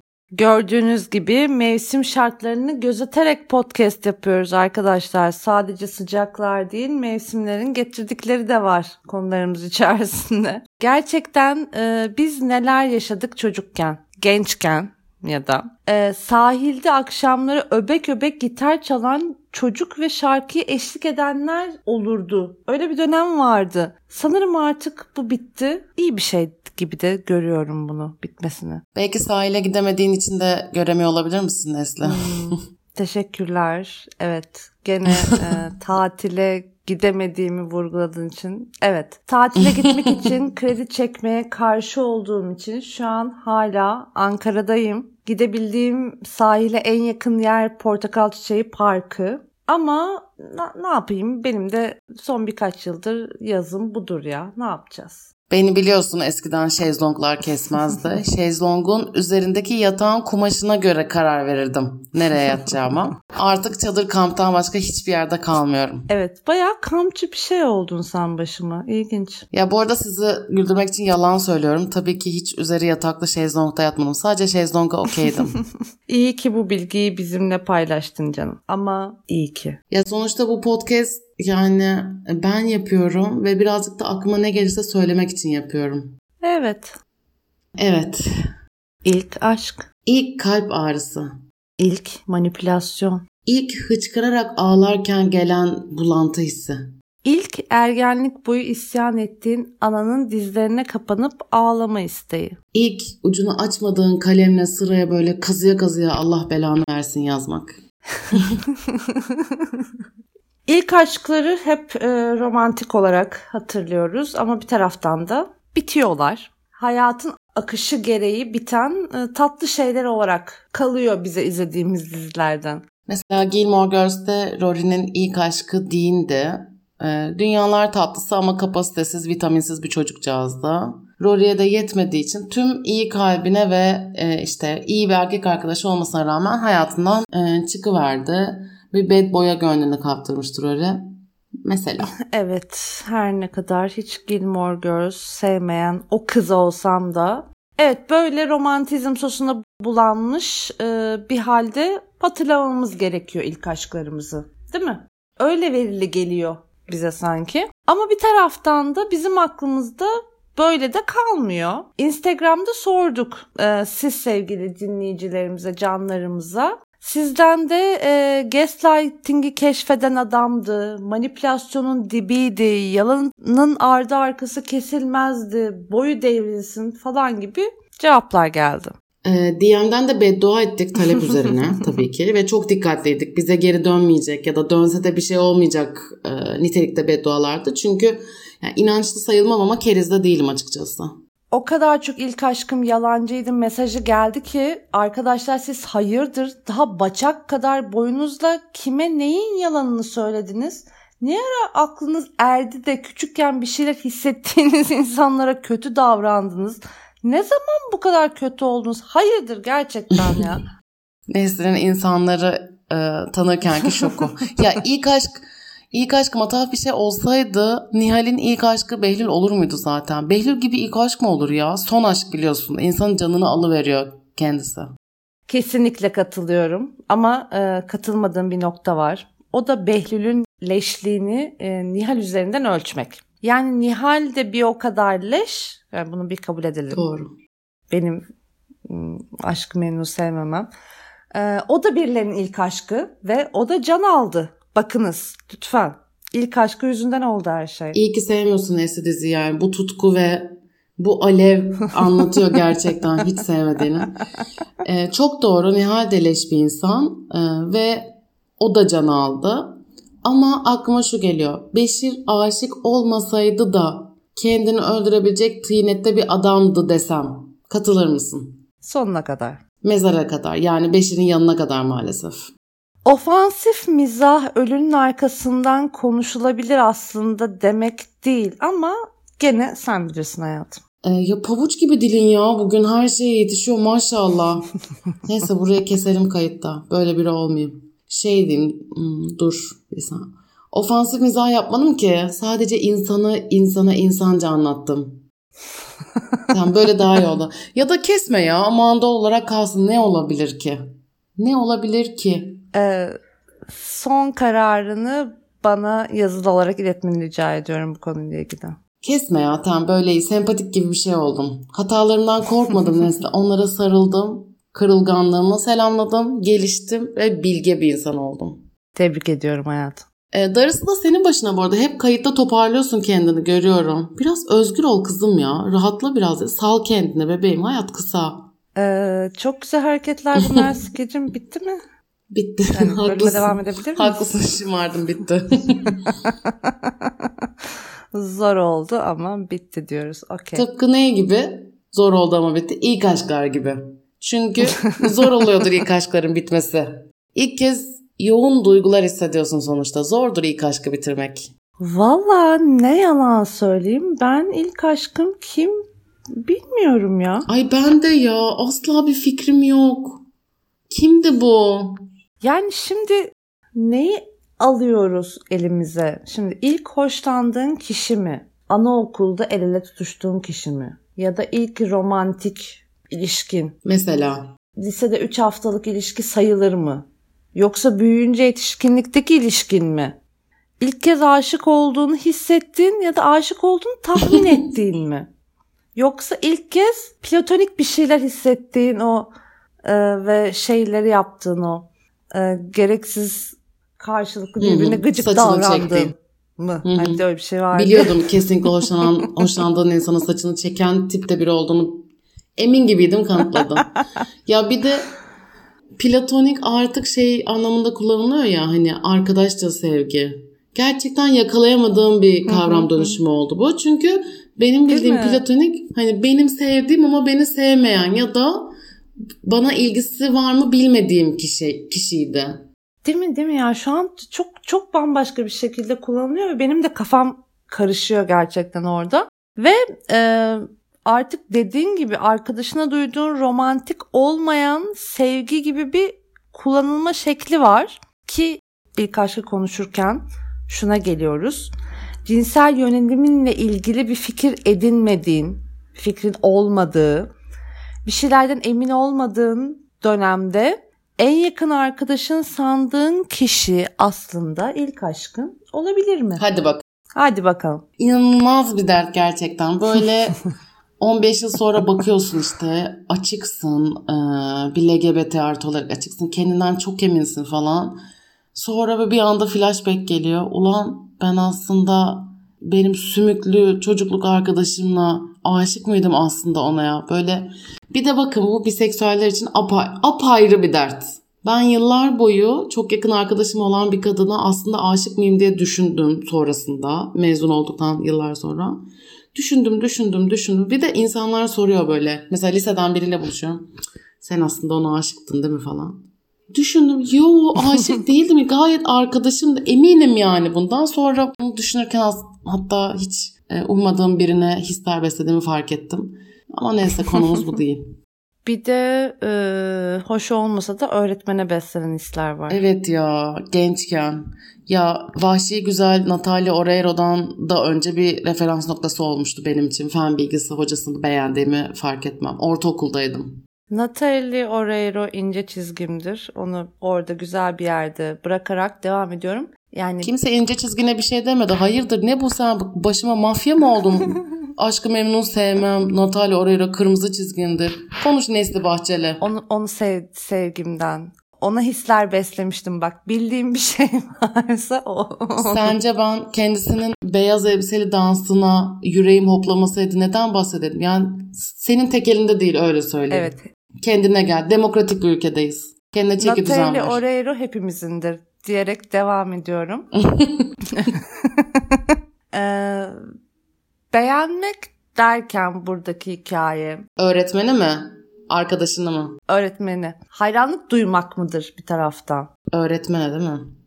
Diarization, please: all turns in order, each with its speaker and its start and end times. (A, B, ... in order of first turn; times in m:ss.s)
0:00.3-0:28.8 A
0:28.9-0:32.5 B
0:32.0-0:55.2 A
0:39.6-0:40.1 B
0:55.5-1:06.1 B
1:06.1-1:09.4 A
1:09.5-1:15.5 B
1:16.1-1:19.8 A
1:19.9-1:26.1 B
1:26.4-1:27.0 A
1:27.8-1:28.2 B
1:29.0-1:29.9 A
1:30.0-1:31.3 B
1:31.8-1:33.2 A
1:33.4-1:36.8 B
1:37.2-1:42.6 A
1:42.7-1:47.8 B
1:48.8-1:49.3 A
1:50.7-2:02.8 A
2:03.1-2:21.0 B
2:21.6-2:22.1 B
2:22.3-2:58.9 A
2:59.2-3:11.1 B
3:11.5-3:30.6 A
3:31.3-3:35.3 B
3:35.9-3:44.9 B
3:45.5-3:57.0 A
3:56.9-3:57.3 B
3:57.9-3:58.2 A
3:58.8-4:00.7 A
4:01.3-4:08.0 A
4:07.9-4:14.1 B
4:14.8-4:28.6 B
4:28.8-4:29.6 A
4:29.8-4:32.5 B
4:33.0-4:40.8 A
4:41.0-4:44.7 B
4:45.2-4:55.2 B
4:56.5-5:00.8 B
5:01.4-5:02.6 B
5:02.7-5:03.2 A
5:03.7-5:08.8 A
5:09.0-5:18.6 B
5:18.9-5:20.0 A
5:20.3-5:28.4 B
5:28.7-5:31.8 A
5:32.3-5:36.1 B
5:32.7-5:34.3 A
5:36.2-5:37.3 A
5:38.1-5:40.6 A
5:40.5-5:51.5 B
5:44.7-5:45.0 A
5:51.8-5:55.8 A
5:56.4-5:57.5 A
5:57.5-6:00.2 B
6:00.9-6:01.9 B
6:02.4-6:13.7 A
6:13.8-6:14.4 B
6:14.8-6:20.2 A
6:20.8-6:25.3 A
6:25.9-6:29.3 A
6:29.8-6:38.1 A
6:34.6-6:36.1 B
6:36.8-6:43.9 B
6:44.4-6:45.1 B
6:46.0-6:58.7 B
6:52.5-6:53.2 A
6:54.9-6:55.4 A
6:59.4-7:02.6 B
7:03.0-7:21.7 A
7:22.2-7:27.3 A
7:28.0-7:36.4 A
7:36.4-7:36.8 B
7:37.2-7:37.8 A
7:38.0-7:40.4 B
7:41.0-7:48.0 B
7:48.5-8:08.8 B
8:09.3-8:13.7 B
8:14.2-8:28.0 B
8:28.4-8:32.6 A
8:32.5-8:43.4 B
8:43.7-8:50.1 A
8:50.0-8:59.2 B
8:59.2-9:05.7 A
9:05.4-9:13.3 B
9:13.1-9:13.4 A
9:13.8-9:17.0 B
9:16.2-9:19.9 A
9:20.0-9:20.4 B
9:20.7-9:23.0 A
9:23.9-9:26.8 A
9:27.0-9:29.1 B
9:29.3-9:32.3 A
9:32.5-9:33.4 B